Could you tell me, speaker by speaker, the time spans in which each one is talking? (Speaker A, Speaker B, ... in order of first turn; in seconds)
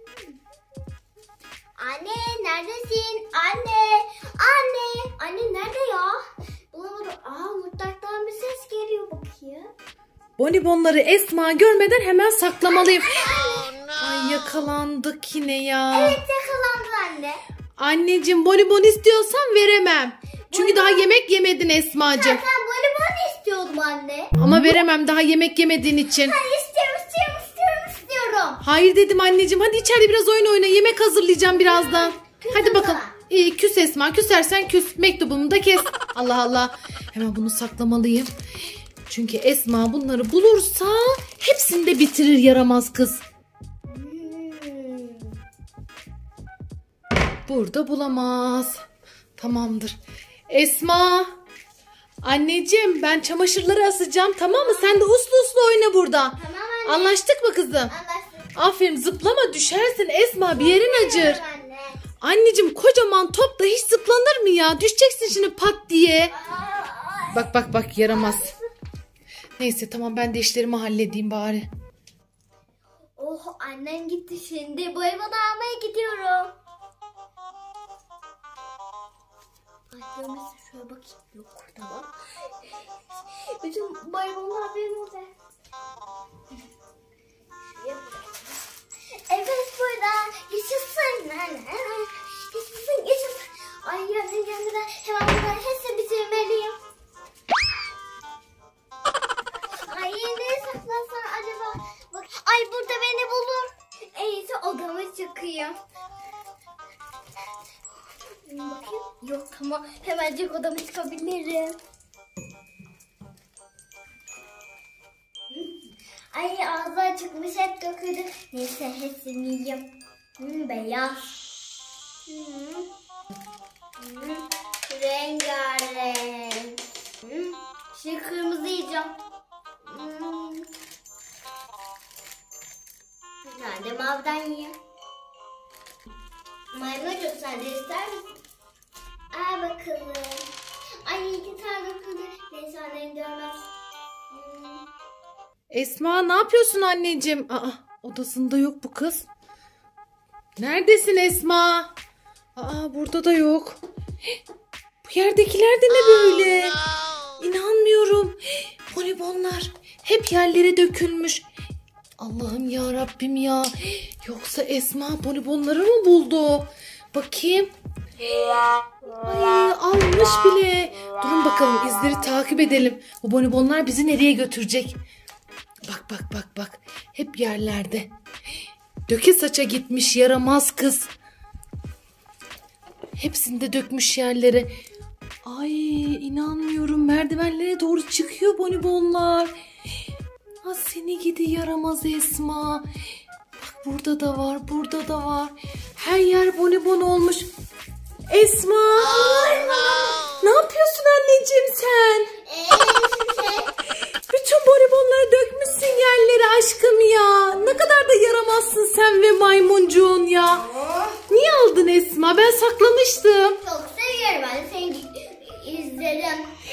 Speaker A: 1.8-6.2, 6.7-9.7, 12.8-13.8, 15.9-17.4, 20.5-21.1, 22.1-24.3, 26.1-28.6, 31.6-33.1, 43.9-45.4, 54.5-55.0, 56.4-57.2, 57.9-58.5, 60.5-62.0, 66.3-67.5, 68.1-68.6, 73.2-76.5, 79.9-82.1, 83.4-85.3, 87.7-88.6, 89.3-96.8, 99.8-105.8, 108.5-111.8, 115.5-119.9, 120.4-121.3, 122.3-122.9, 124.0-129.1, 129.9-130.7, 133.5-134.8, 136.7-138.3, 139.3-140.5, 141.0-143.6, 144.3-144.9, 199.1-200.3, 202.4-203.7, 213.6-216.5
Speaker B: 10.4-16.2, 17.8-22.4, 24.4-26.4, 28.6-38.3, 39.1-43.2, 47.5-48.8, 49.4-50.0, 50.5-51.3, 52.2-57.9, 58.5-61.4, 62.2-66.3, 67.3-68.5, 69.6-71.7, 145.7-149.3, 150.6-151.9, 152.6-153.8, 155.1-156.8, 157.4-158.4, 158.9-161.5, 162.2-167.7, 169.1-175.0, 175.9-178.1, 179.1-181.1, 183.2-184.7, 185.4-189.5, 190.6-192.8, 193.6-197.5, 198.3-199.6, 200.4-202.3, 204.3-210.7, 211.3-213.6